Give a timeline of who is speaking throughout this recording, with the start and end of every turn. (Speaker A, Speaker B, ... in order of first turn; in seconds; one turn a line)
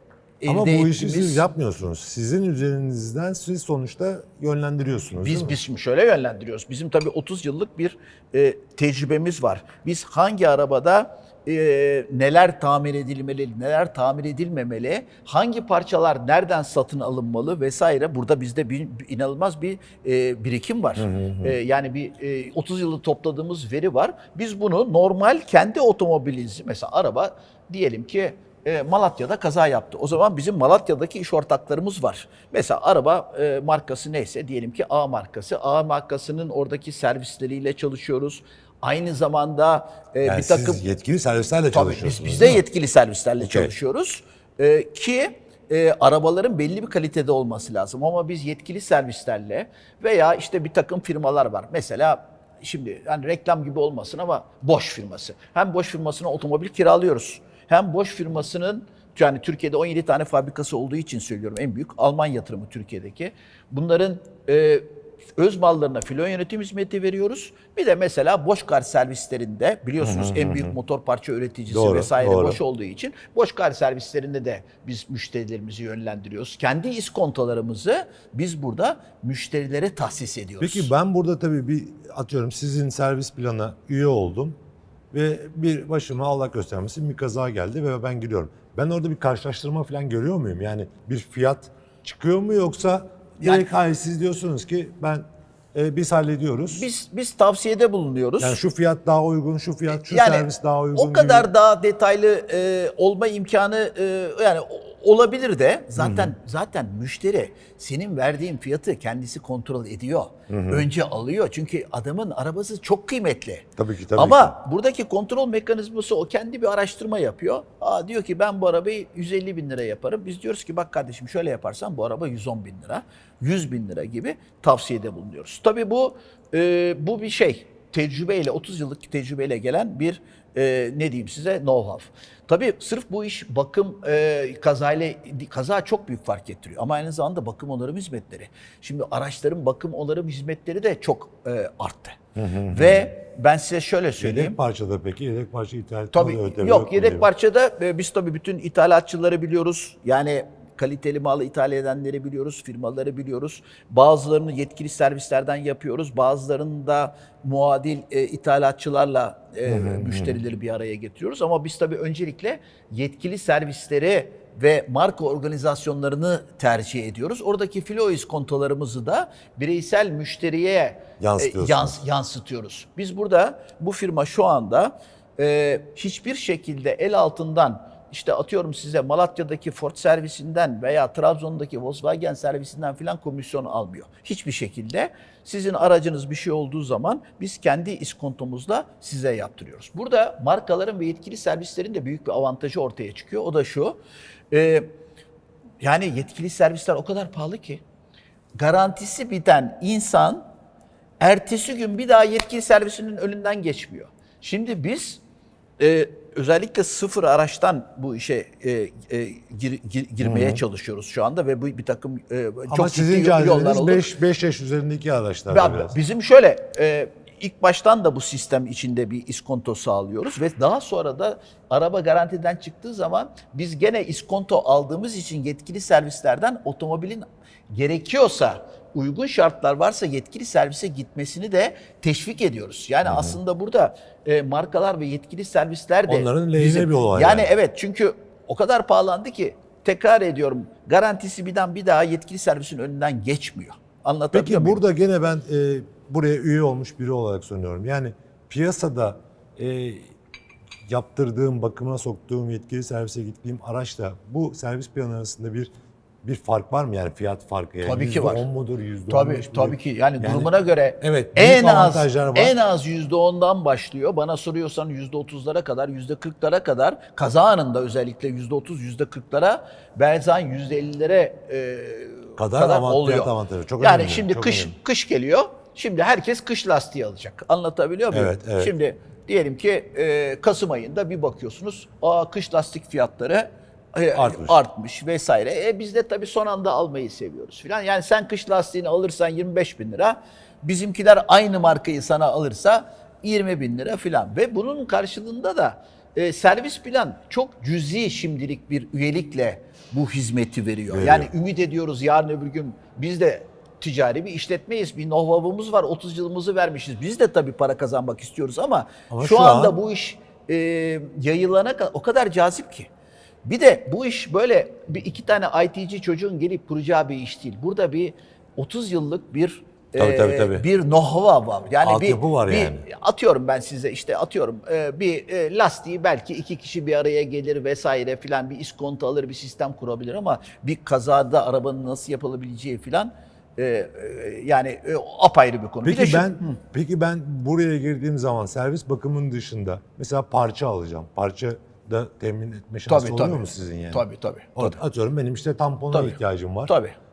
Speaker A: 0.4-1.4
Speaker B: 0.5-5.6
Speaker A: 5.2-40.8
Speaker B: 21.0-21.6
Speaker B: 40.2-42.6
Speaker A: 41.7-80.9
Speaker B: 43.4-43.7
Speaker B: 70.0-70.8
Speaker B: 71.7-72.6
Speaker B: 80.6-84.6
Speaker B: 85.1-96.9
Speaker A: 93.4-93.7
Speaker A: 96.7-98.6
Speaker B: 98.4-101.5
Speaker A: 99.9-142.2
Speaker B: 106.0-106.3
Speaker B: 110.5-110.9
Speaker B: 113.8-114.6
Speaker B: 142.3-143.1
Speaker A: 142.7-144.6
Speaker B: 144.2-147.3
Speaker A: 146.1-194.0
Speaker B: 159.7-160.4
Speaker B: 171.2-172.0
Speaker A: 194.5-194.9
Speaker A: 195.8-197.8
Speaker A: 198.6-200.4
Speaker A: 201.2-205.2
Speaker A: 205.8-214.1
Speaker B: 210.2-210.6
Speaker B: 212.7-215.9
Speaker A: 215.5-244.8
Speaker B: 233.1-233.4
Speaker B: 236.1-237.5
Speaker B: 244.3-250.1
Speaker B: 250.9-255.7
Speaker B: 256.2-262.6
Speaker A: 257.8-258.5
Speaker A: 259.1-312.9
Speaker B: 272.4-274.8
Speaker B: 278.1-278.7
Speaker B: 284.1-284.6
Speaker B: 300.9-301.3
Speaker B: 309.1-309.8
Speaker A: 313.4-336.6
Speaker B: 320.0-320.7
Speaker B: 321.8-322.9
Speaker B: 335.8-344.0
Speaker A: 342.9-344.8
Speaker B: 344.6-346.7
Speaker A: 345.9-347.0